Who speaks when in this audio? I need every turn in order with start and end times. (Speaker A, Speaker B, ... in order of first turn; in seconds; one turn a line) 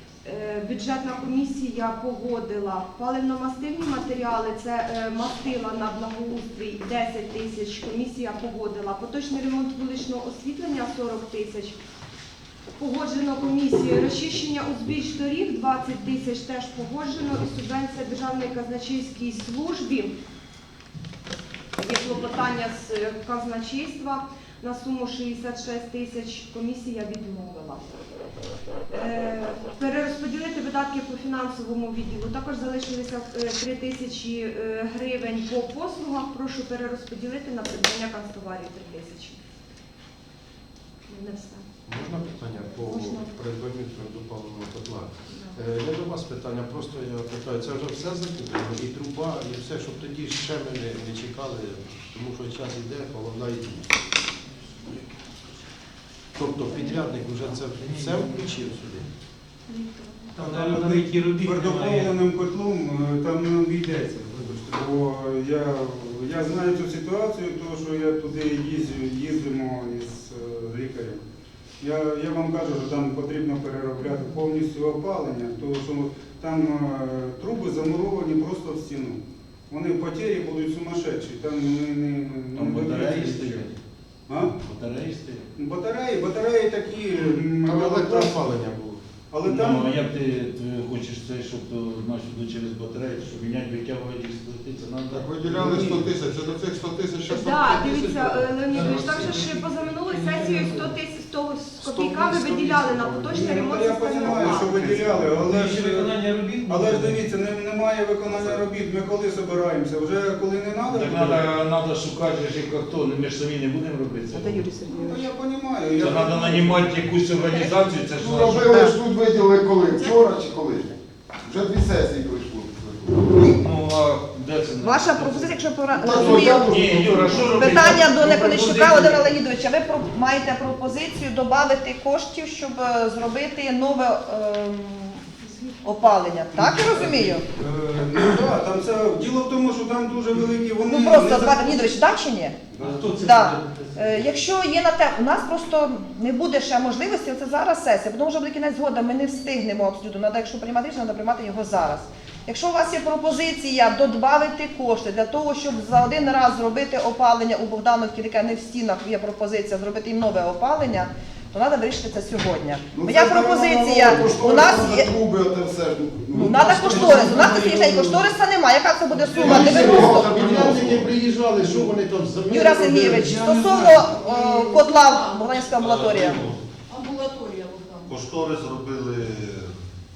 Speaker A: 0.2-11.8
Speaker A: 12.8-20.1
Speaker A: 21.8-27.9
Speaker A: 28.9-39.4
Speaker A: 41.1-41.7
Speaker B: 41.9-53.9
Speaker A: 42.7-43.3
Speaker A: 45.3-45.6
Speaker B: 56.4-59.1
Speaker A: 56.7-57.0
Speaker A: 59.7-60.4
Speaker C: 60.4-62.1
Speaker D: 60.4-71.2
Speaker D: 71.8-83.7
Speaker E: 82.5-83.7
Speaker E: 84.7-85.5
Speaker D: 85.6-88.5
Speaker B: 87.6-89.0
Speaker D: 89.3-89.9
Speaker E: 89.5-95.9
Speaker F: 95.1-99.3
Speaker A: 97.3-104.8
Speaker C: 98.7-99.5
Speaker C: 100.1-100.7
Speaker F: 102.3-102.6
Speaker B: 102.7-103.2
Speaker D: 103.3-111.5
Speaker C: 105.5-107.2
Speaker E: 110.9-114.7
Speaker G: 114.3-115.3
Speaker D: 114.9-117.0
Speaker E: 116.0-118.7
Speaker F: 118.2-123.4
Speaker G: 118.4-119.0
Speaker E: 123.3-125.6
Speaker G: 124.8-135.2
Speaker F: 126.0-127.7
Speaker E: 126.1-129.2
Speaker G: 135.8-137.4
Speaker D: 136.5-142.0
Speaker G: 140.8-142.6
Speaker D: 142.7-143.1
Speaker C: 143.0-143.7
Speaker G: 143.1-165.1
Speaker F: 162.9-167.6
Speaker G: 166.3-170.7
Speaker D: 167.5-168.2
Speaker H: 169.3-169.8
Speaker B: 169.4-173.3
Speaker F: 169.4-170.7
Speaker H: 170.4-171.2
Speaker D: 171.6-171.9
Speaker G: 172.5-176.4
Speaker D: 173.0-174.3
Speaker C: 174.3-175.4
Speaker H: 175.8-176.6
Speaker C: 176.9-178.1
Speaker H: 178.1-179.7